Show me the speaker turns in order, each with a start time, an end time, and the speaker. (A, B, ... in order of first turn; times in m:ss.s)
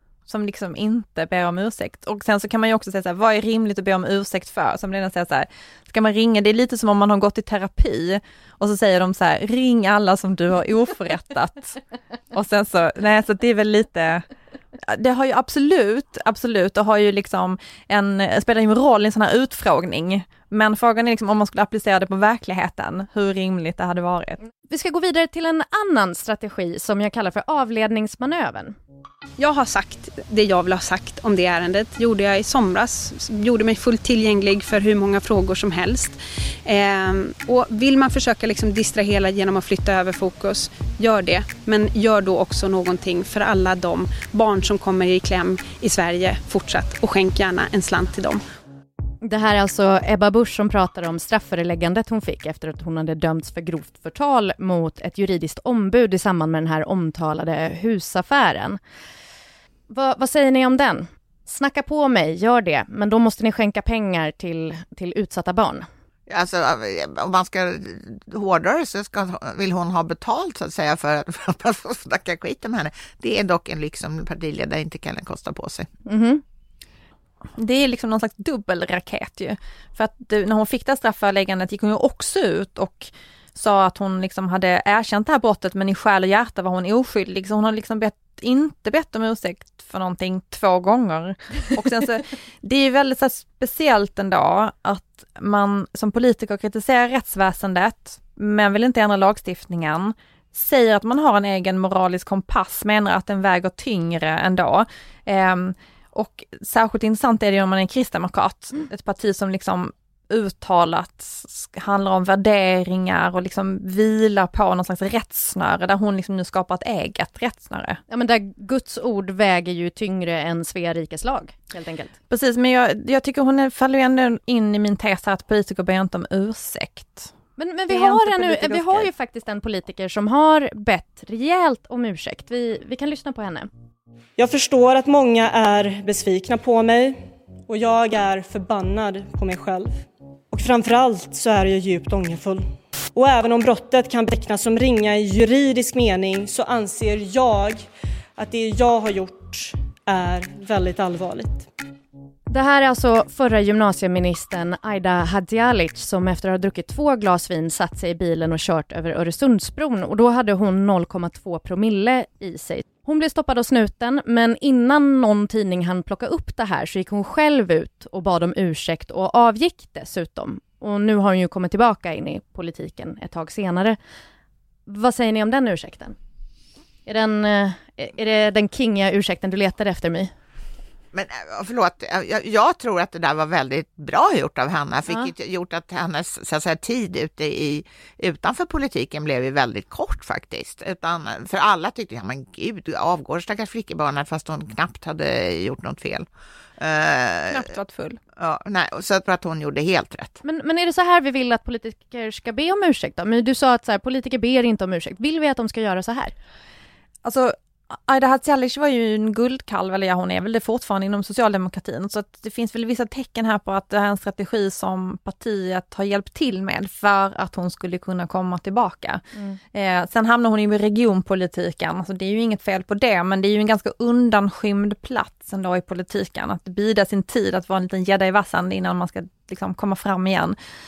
0:00.3-0:11.8 A
0:12.3-0:14.2 A
0:14.8-0:24.4 A
0:24.7-0:28.8 B
0:29.4-0:48.4 C
0:49.2-0:58.8 B
0:59.9-1:05.9 B
1:06.3-1:15.9 D
1:16.0-1:16.4 B
1:17.6-1:58.0 A
1:58.1-2:02.1 B
2:02.3-2:07.3 A
2:07.6-2:13.7 B
2:07.9-2:09.1 A
2:14.4-2:31.7 E
2:32.5-2:54.0 B
2:54.9-2:56.2 B
2:57.0-3:00.3 B
3:01.1-3:16.2 D
3:16.8-3:17.7 D
3:17.5-3:18.2 A
3:18.4-3:20.4 D
3:20.4-3:26.3 B
3:27.2-3:50.6 A